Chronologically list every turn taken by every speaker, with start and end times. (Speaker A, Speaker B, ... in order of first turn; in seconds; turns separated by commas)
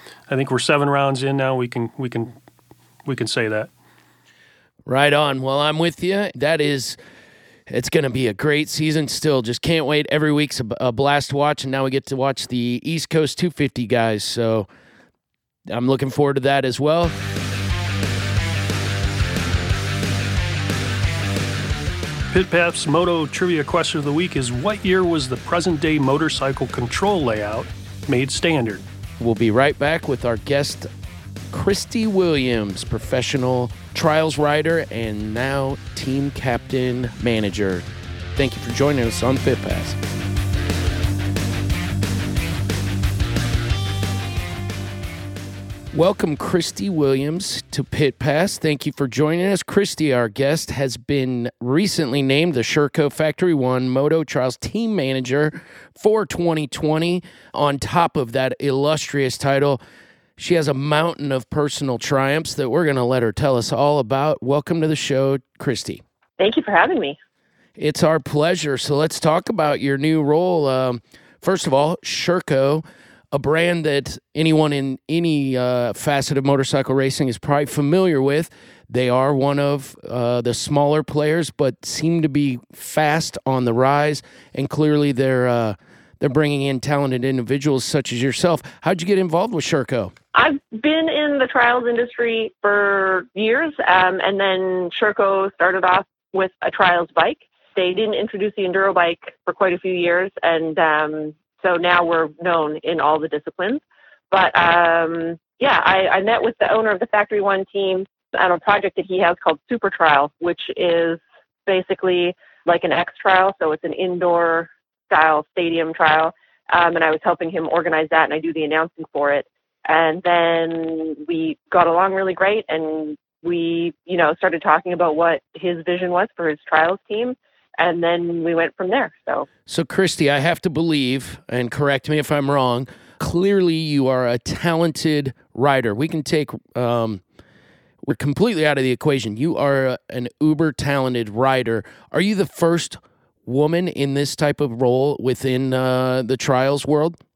Speaker A: 0.3-2.3, Speaker A: 3.0-3.7, Speaker B: 4.8-7.0, Speaker B: 7.7-14.7, Speaker B: 15.7-17.1, Speaker A: 22.3-28.8, Speaker B: 29.2-30.9, Speaker B: 31.5-40.0, Speaker B: 45.9-59.8, Speaker B: 60.4-66.0, Speaker C: 66.4-67.2, Speaker B: 67.8-90.1, Speaker C: 90.3-129.5, Speaker B: 129.7-137.2, Speaker B: 138.0-147.2